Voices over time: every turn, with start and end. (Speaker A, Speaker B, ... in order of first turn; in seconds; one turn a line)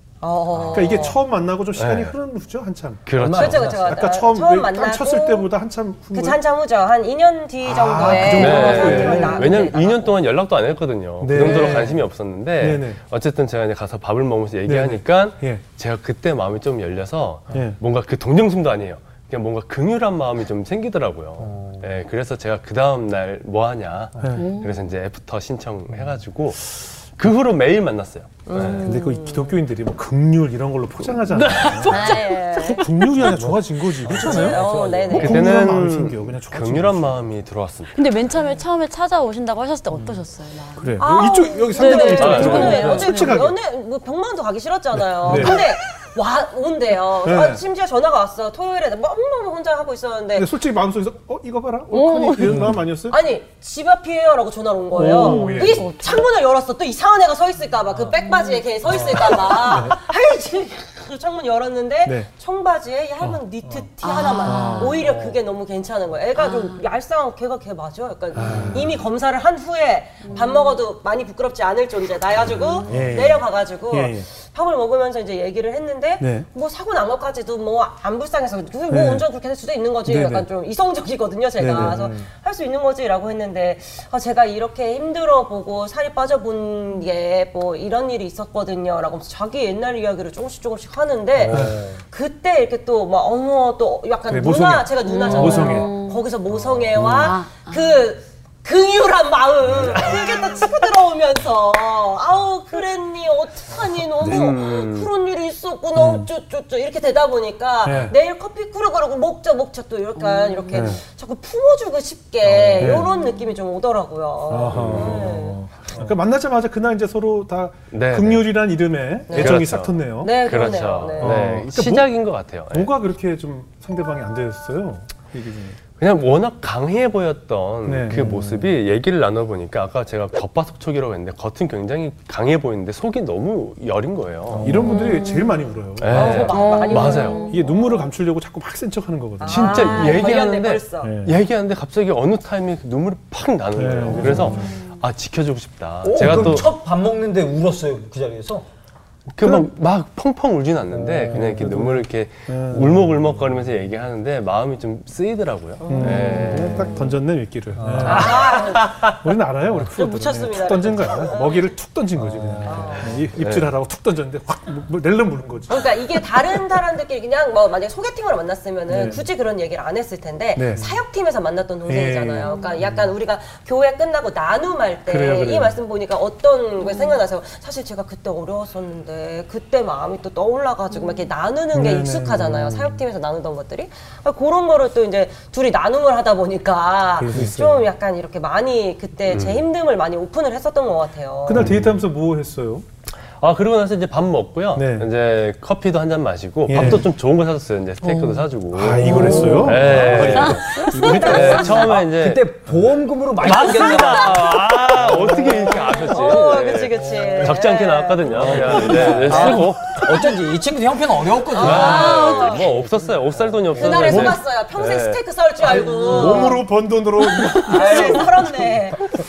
Speaker A: 0.2-1.2
Speaker B: 0.6-0.9
Speaker C: 0.7-6.4
Speaker D: 1.8-2.1
Speaker D: 3.0-3.8
Speaker B: 3.2-3.9
Speaker A: 3.3-5.5
Speaker A: 6.1-10.1
Speaker C: 7.6-9.5
Speaker D: 8.2-28.9
Speaker C: 11.2-12.0
Speaker C: 12.6-13.0
Speaker C: 14.7-15.6
Speaker C: 17.5-17.8
Speaker B: 21.4-21.8
Speaker C: 24.2-24.4
Speaker E: 24.3-24.8
Speaker A: 28.4-29.6
Speaker C: 28.5-32.0
Speaker D: 31.1-32.2
Speaker E: 31.8-33.2
Speaker A: 31.9-33.0
Speaker C: 32.5-37.2
Speaker B: 33.2-35.1
Speaker A: 34.1-35.4
Speaker D: 34.4-38.0
Speaker E: 37.9-41.0
Speaker B: 39.9-40.2
Speaker C: 40.8-43.6
Speaker A: 41.0-50.5
Speaker E: 41.6-43.4
Speaker D: 42.1-42.9
Speaker B: 42.5-43.0
Speaker C: 45.1-45.7
Speaker C: 47.2-47.6
Speaker C: 50.3-53.2
Speaker E: 51.9-52.7
Speaker A: 53.1-115.6
Speaker C: 54.9-55.9
Speaker E: 55.0-56.3
Speaker E: 58.2-59.1
Speaker B: 59.0-59.4
Speaker C: 59.5-60.0
Speaker E: 64.0-65.0
Speaker C: 64.4-65.0
Speaker B: 64.9-65.4
Speaker E: 66.3-66.8
Speaker C: 68.3-69.0
Speaker B: 68.4-68.9
Speaker E: 70.2-70.8
Speaker C: 72.9-74.3
Speaker C: 76.2-76.5
Speaker C: 78.9-79.2
Speaker C: 80.0-80.5
Speaker C: 81.6-82.0
Speaker B: 81.6-82.3
Speaker B: 91.4-92.0
Speaker C: 91.5-91.8
Speaker C: 94.3-95.9
Speaker E: 95.0-96.2
Speaker E: 97.0-98.0
Speaker D: 99.8-100.2
Speaker C: 104.2-104.5
Speaker D: 104.2-105.1
Speaker C: 105.9-106.3
Speaker C: 107.8-108.2
Speaker C: 110.7-111.0
Speaker C: 112.8-113.1
Speaker C: 114.5-120.4
Speaker D: 114.7-115.4
Speaker D: 117.9-118.5
Speaker A: 119.3-119.6
Speaker D: 119.3-122.9
Speaker A: 120.2-121.4
Speaker C: 121.2-122.1
Speaker C: 122.7-125.8
Speaker D: 126.0-134.8
Speaker C: 127.8-128.7
Speaker B: 134.5-135.0
Speaker C: 134.6-136.5
Speaker E: 134.8-135.6
Speaker D: 136.0-137.4
Speaker A: 136.1-137.6
Speaker E: 136.2-137.7
Speaker C: 137.5-140.0
Speaker A: 139.4-141.1
Speaker D: 139.4-146.7
Speaker C: 141.0-141.4
Speaker C: 143.8-144.8
Speaker B: 144.2-144.7
Speaker E: 144.5-144.8
Speaker B: 146.0-148.7
Speaker C: 146.2-146.6
Speaker D: 149.3-157.0
Speaker C: 149.4-149.7
Speaker B: 150.9-151.8
Speaker C: 151.3-153.6
Speaker A: 155.8-157.2
Speaker C: 155.9-166.2
Speaker B: 157.8-158.3
Speaker D: 158.0-159.2
Speaker A: 158.0-159.1
Speaker A: 159.8-161.7
Speaker B: 162.2-162.8
Speaker A: 162.6-163.2
Speaker D: 163.4-163.7
Speaker A: 165.7-191.8
Speaker C: 168.9-169.2
Speaker C: 170.6-170.8
Speaker C: 171.9-172.7
Speaker E: 172.4-172.8
Speaker C: 175.1-175.8
Speaker E: 176.9-177.2
Speaker E: 180.9-181.2
Speaker C: 181.7-182.9
Speaker C: 187.2-187.8
Speaker D: 189.3-189.6
Speaker C: 191.4-192.8
Speaker D: 191.5-191.8
Speaker D: 193.4-202.5
Speaker C: 194.7-195.1
Speaker C: 196.7-197.1
Speaker C: 198.7-201.8
Speaker B: 198.9-207.5
Speaker A: 200.4-202.0
Speaker D: 203.4-210.3
Speaker A: 204.0-204.3
Speaker A: 205.5-209.3
Speaker C: 208.4-209.8
Speaker B: 208.4-214.4
Speaker A: 211.5-212.7
Speaker D: 211.6-215.2
Speaker E: 212.1-212.5
Speaker A: 213.7-216.7
Speaker B: 215.6-216.5
Speaker C: 215.7-218.7
Speaker A: 217.2-219.1
Speaker B: 217.5-218.5